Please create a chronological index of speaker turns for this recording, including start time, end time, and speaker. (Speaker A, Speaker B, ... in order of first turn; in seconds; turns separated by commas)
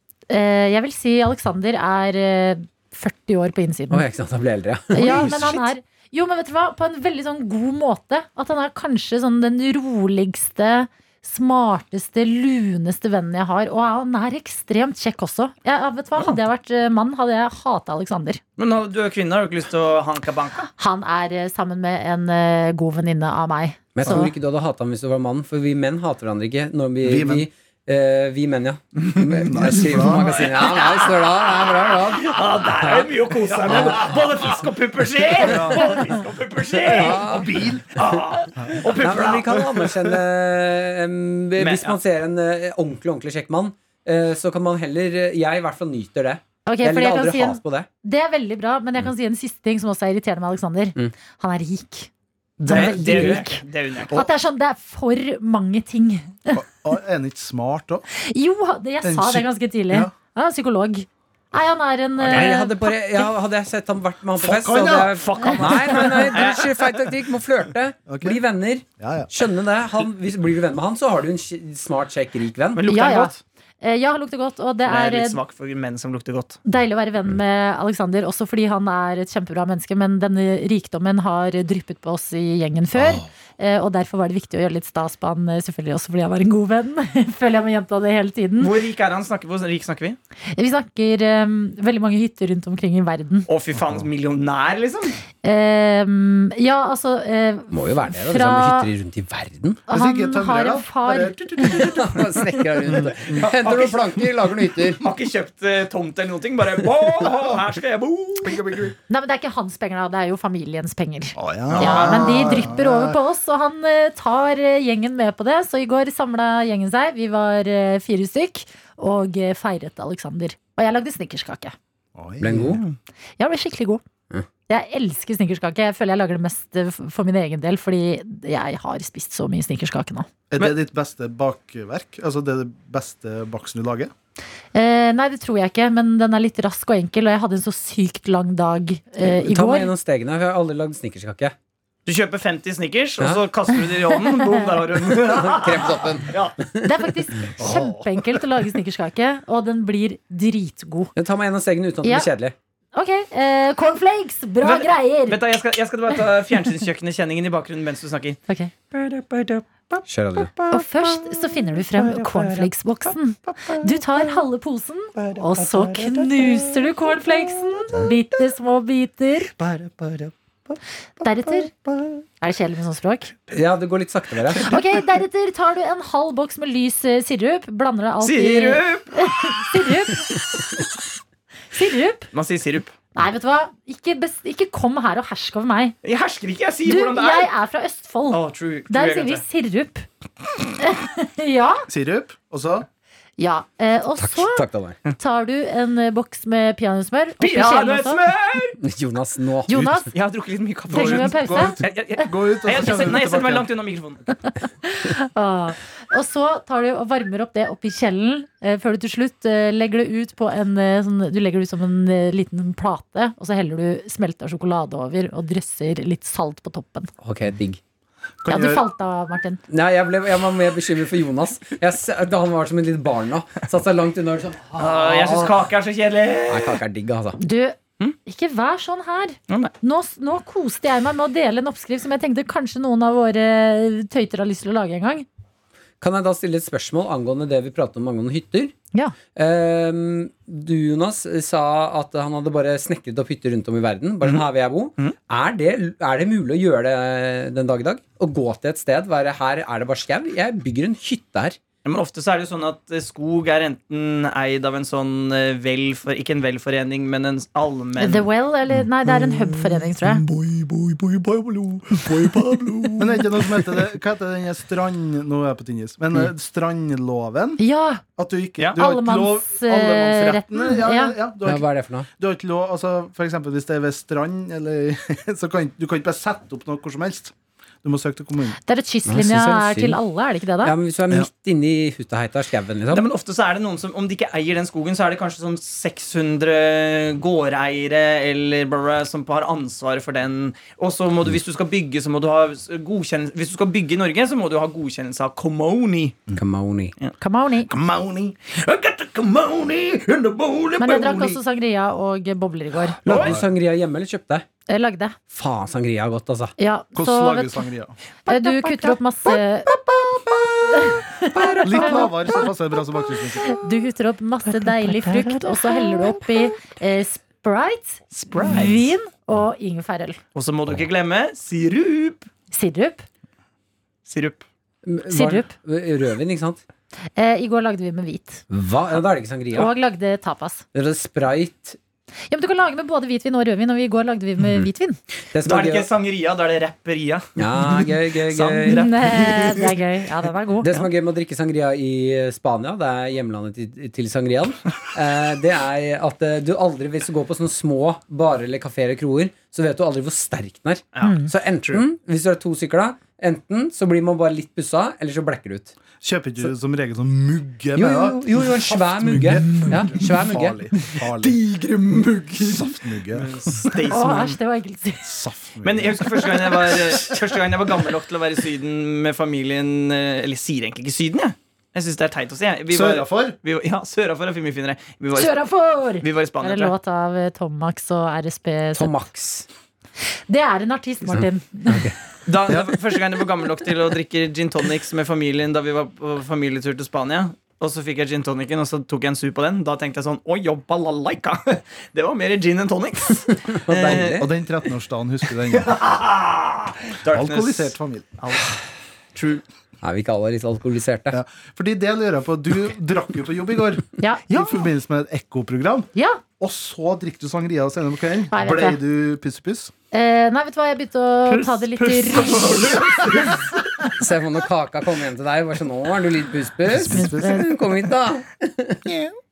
Speaker A: 0.3-4.0, Speaker B: 3.9-5.5, Speaker A: 4.9-18.4, Speaker C: 5.0-5.6, Speaker C: 18.6-20.7, Speaker A: 20.8-24.3, Speaker B: 23.9-34.3, Speaker D: 27.0-27.4, Speaker D: 29.1-30.4, Speaker C: 30.1-31.0, Speaker C: 32.2-39.7, Speaker D: 35.4-36.1, Speaker B: 36.9-37.6, Speaker D: 36.9-37.8, Speaker B: 38.8-47.9, Speaker C: 41.6-42.0, Speaker A: 46.7-52.1, Speaker B: 52.6-53.3, Speaker C: 52.6-54.2, Speaker A: 52.7-56.6, Speaker D: 56.5-58.0, Speaker A: 58.1-62.8, Speaker D: 59.0-60.1, Speaker B: 62.2-72.8, Speaker C: 62.2-62.5, Speaker D: 64.4-65.2, Speaker C: 65.0-66.8, Speaker A: 65.4-66.3, Speaker D: 68.1-68.4, Speaker D: 69.0-69.3, Speaker C: 72.8-73.4, Speaker A: 72.9-75.4, Speaker C: 74.9-76.6, Speaker A: 76.7-88.7, Speaker C: 88.6-90.2, Speaker A: 90.5-93.5, Speaker C: 93.5-95.2, Speaker A: 95.4-98.9, Speaker B: 97.7-99.8, Speaker A: 99.9-101.8, Speaker D: 99.9-102.3, Speaker B: 101.6-105.0, Speaker D: 102.9-103.4, Speaker C: 103.3-104.3, Speaker C: 105.0-108.8, Speaker D: 108.4-109.0, Speaker A: 109.1-121.8, Speaker D: 111.4-113.2, Speaker C: 111.7-112.7, Speaker D: 122.2-122.8, Speaker B: 122.4-122.8, Speaker A: 123.4-124.0, Speaker A: 124.7-130.3, Speaker D: 130.5-134.1, Speaker A: 134.7-139.9, Speaker B: 139.2-141.6, Speaker C: 142.1-146.6, Speaker B: 143.2-143.4, Speaker A: 144.3-144.6, Speaker B: 145.2-147.0, Speaker A: 146.8-151.1, Speaker D: 147.6-148.0, Speaker B: 151.2-152.6, Speaker A: 152.9-155.4, Speaker C: 154.6-158.4, Speaker C: 158.9-164.4, Speaker B: 160.1-160.5, Speaker A: 160.7-169.5, Speaker C: 165.2-168.1, Speaker C: 169.6-170.8, Speaker A: 171.2-171.7, Speaker C: 171.9-172.2, Speaker A: 172.4-173.3, Speaker B: 173.5-174.7, Speaker A: 174.6-180.6, Speaker C: 178.2-179.2, Speaker A: 181.7-182.3, Speaker C: 182.3-182.9, Speaker A: 183.2-185.9, Speaker C: 186.0-187.5, Speaker A: 186.9-190.1, Speaker C: 188.3-189.4, Speaker A: 190.8-191.9, Speaker D: 191.9-192.9, Speaker A: 193.4-194.7, Speaker B: 194.2-195.0, Speaker A: 195.2-198.2, Speaker C: 197.4-198.8, Speaker B: 198.8-200.1, Speaker A: 199.7-200.1, Speaker C: 200.1-204.2, Speaker D: 200.9-203.7, Speaker A: 200.9-201.8, Speaker A: 204.8-217.1, Speaker B: 217.2-217.8, Speaker D: 218.4-218.8, Speaker A: 218.5-219.6, Speaker B: 219.7-225.6, Speaker C: 224.8-226.8, Speaker B: 226.5-227.4, Speaker A: 227.4-235.3, Speaker B: 236.0-238.7, Speaker B: 239.3-251.6, Speaker C: 251.8-258.3, Speaker A: 258.0-260.2, Speaker C: 259.1-263.9, Speaker D: 263.0-267.6, Speaker A: 267.6-268.0, Speaker D: 268.2-271.7, Speaker A: 268.8-271.1, Speaker B: 271.4-272.1, Speaker D: 272.2-277.3, Speaker D: 277.8-278.6, Speaker A: 278.7-280.7, Speaker B: 279.1-280.0, Speaker B: 280.6-283.1, Speaker C: 282.9-296.2, Speaker B: 296.4-296.9, Speaker A: 297.2-297.7, Speaker D: 297.8-298.3, Speaker C: 298.4-301.4, Speaker A: 300.8-303.0, Speaker B: 303.1-304.5, Speaker C: 303.1-303.4, Speaker D: 303.1-303.4, Speaker A: 304.7-305.2, Speaker B: 305.3-306.5, Speaker A: 306.6-307.6, Speaker D: 306.9-307.9, Speaker A: 308.3-309.7, Speaker C: 309.7-310.4, Speaker A: 310.7-312.4, Speaker C: 311.4-312.1, Speaker B: 311.4-312.0, Speaker D: 311.6-313.6, Speaker A: 313.4-320.2, Speaker C: 314.5-316.2, Speaker C: 318.1-318.8, Speaker C: 320.4-322.3, Speaker A: 322.5-323.1, Speaker C: 324.1-324.4, Speaker B: 324.9-326.6, Speaker A: 325.1-325.5, Speaker A: 327.2-328.4, Speaker B: 328.5-329.7, Speaker A: 329.5-330.6, Speaker B: 330.7-331.8, Speaker A: 332.3-335.0, Speaker B: 334.4-334.7, Speaker B: 335.3-335.9, Speaker C: 335.4-339.6, Speaker B: 337.4-339.5, Speaker A: 338.7-340.7, Speaker B: 340.6-355.7, Speaker C: 350.9-351.8, Speaker A: 351.0-351.3, Speaker D: 356.0-361.4, Speaker B: 357.8-360.6, Speaker C: 360.9-364.4, Speaker D: 362.4-363.8, Speaker A: 363.9-365.1, Speaker D: 365.0-367.5, Speaker C: 365.6-375.3, Speaker D: 372.7-373.4, Speaker A: 375.1-378.9, Speaker C: 376.0-376.7, Speaker B: 378.7-379.5, Speaker A: 380.3-381.9, Speaker B: 381.1-381.9, Speaker C: 382.3-394.3, Speaker D: 382.5-382.8, Speaker B: 393.7-394.2, Speaker D: 393.7-395.8, Speaker C: 395.5-398.5, Speaker D: 397.1-398.2, Speaker C: 399.1-399.4, Speaker B: 399.8-401.2, Speaker D: 401.1-409.7, Speaker A: 404.0-404.3, Speaker C: 404.3-404.6, Speaker A: 405.9-406.2, Speaker A: 408.3-408.8, Speaker A: 409.9-413.1, Speaker C: 411.3-413.5, Speaker B: 414.0-418.9, Speaker D: 416.7-417.6, Speaker A: 416.9-417.5